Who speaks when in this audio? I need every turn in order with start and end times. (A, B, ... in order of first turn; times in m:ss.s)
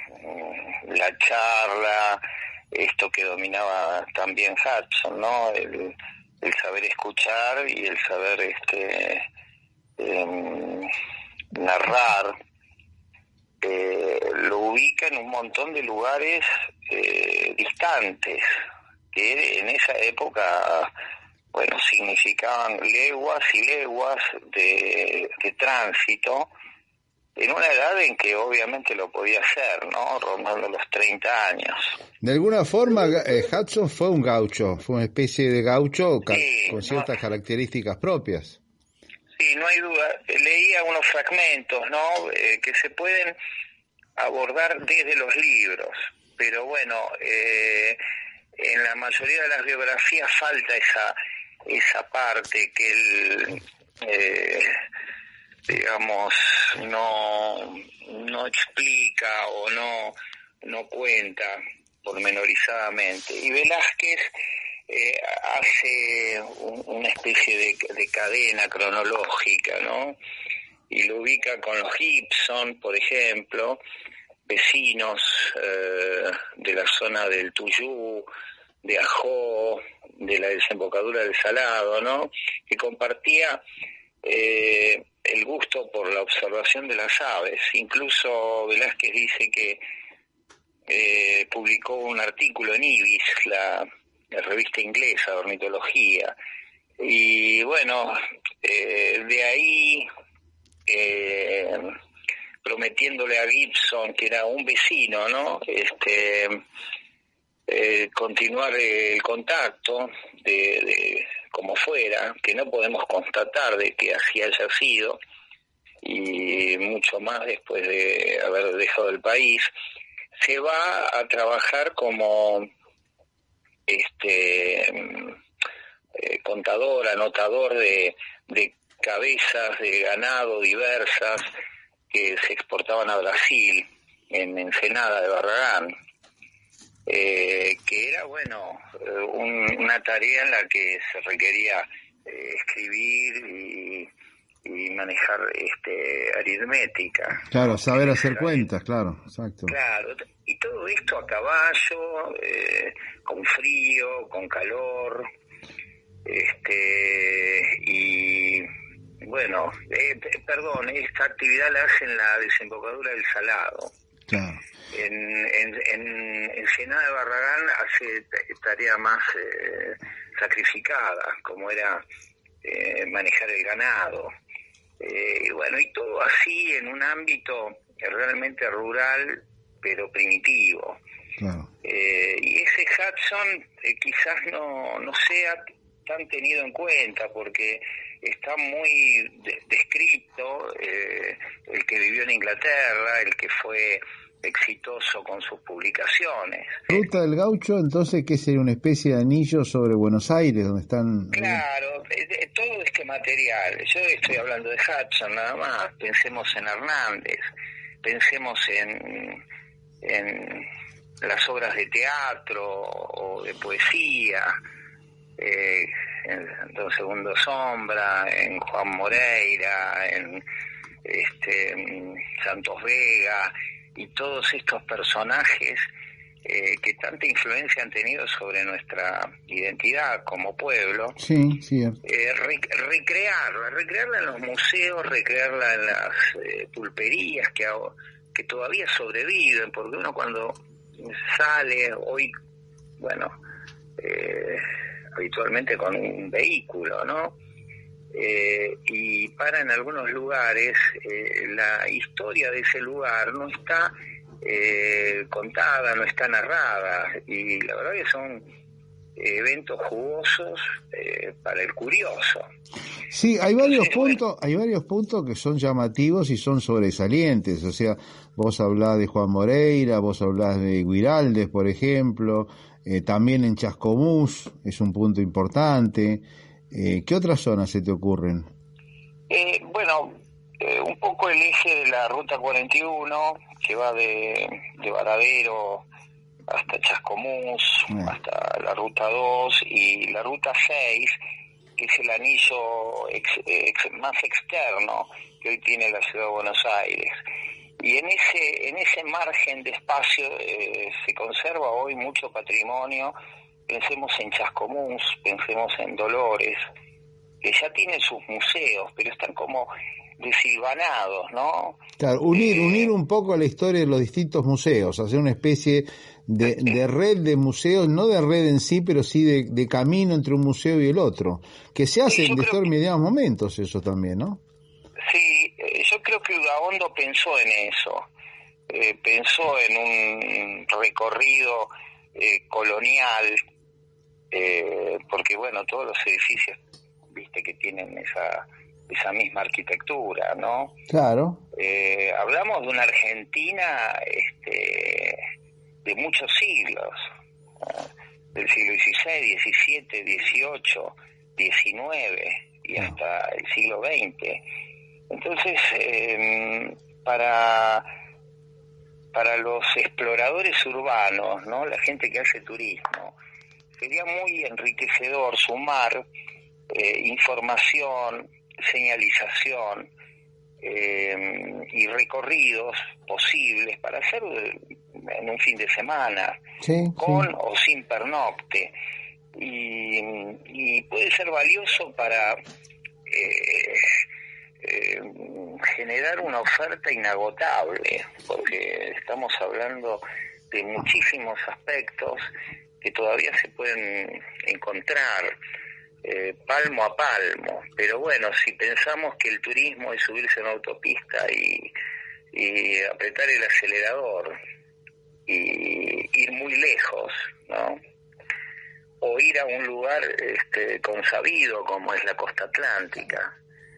0:00.2-0:02.2 A
0:02.7-0:09.2 A
0:10.0-0:10.9 A
0:11.5-0:12.4 A
0:13.6-0:18.4 A
0:19.1-0:20.9 A
0:21.5-0:26.5 A
0:27.4-0:31.9 A
0:32.2-0:38.6 B
0:36.2-0:37.1 A
0:39.4-0:43.4 A
0:44.2-0:48.0 A
0:48.6-0:54.8 A
0:55.7-1:04.3 A
1:04.9-1:10.2 A
1:10.9-1:13.8 A
1:14.5-1:18.3 A
1:18.8-1:23.6 A
1:24.2-1:29.8 A
1:30.9-1:36.3 A
1:37.0-1:40.1 A
1:40.9-1:41.9 A
1:42.6-1:46.6 A
1:47.7-1:55.2 A
1:56.0-1:59.7 A
2:00.4-2:02.7 A
2:03.9-2:05.3 A
2:06.2-2:11.5 A
2:12.1-2:15.9 A
2:17.1-2:24.1 A
2:24.6-2:28.6 A
2:27.5-2:29.7 B
2:29.7-2:35.2 A
2:36.2-2:38.7 A
2:39.2-2:43.9 A
2:44.3-2:44.6 B
2:44.9-2:52.0 A
2:52.6-2:54.3 A
2:55.0-3:01.0 A
3:01.4-3:01.7 B
3:01.8-3:17.0 A
3:16.9-3:21.6 B
3:21.3-3:27.4 A
3:28.0-3:29.4 A
3:30.0-3:30.7 A
3:31.2-3:34.5 A
3:35.4-3:40.4 A
3:41.0-3:45.8 A
3:46.4-3:51.2 A
3:51.2-3:52.0 B
3:52.0-4:02.3 A
4:03.0-4:03.3 A
4:04.0-4:04.6 A
4:05.2-4:07.4 A
4:08.1-4:18.4 A
4:19.2-4:22.5 A
4:23.1-4:38.5 B
4:23.6-4:24.2 A
4:39.3-4:45.8 A
4:46.5-4:51.1 A
4:51.8-4:57.1 A
4:57.8-5:03.1 A
5:03.7-5:06.6 A
5:07.4-5:11.8 A
5:12.0-5:24.4 B
5:12.3-5:12.9 A
5:16.4-5:16.7 A
5:22.0-5:22.7 A
5:25.1-5:28.0 A
5:28.7-5:33.4 A
5:34.3-5:36.6 A
5:37.1-5:40.8 A
5:40.9-5:41.4 B
5:41.5-5:45.2 A
5:45.8-5:47.0 A
5:47.6-5:54.4 A
5:55.1-5:57.8 A
5:59.1-6:03.1 A
6:03.8-6:06.0 A
6:06.7-6:09.9 A
6:10.6-6:16.4 A
6:16.6-6:17.3 B
6:17.0-6:18.7 A
6:19.4-6:22.4 A
6:23.1-6:23.8 A
6:24.6-6:32.2 A
6:32.8-6:35.3 A
6:36.0-6:41.7 A
6:42.3-6:44.4 A
6:45.3-6:47.8 A
6:49.0-6:53.3 A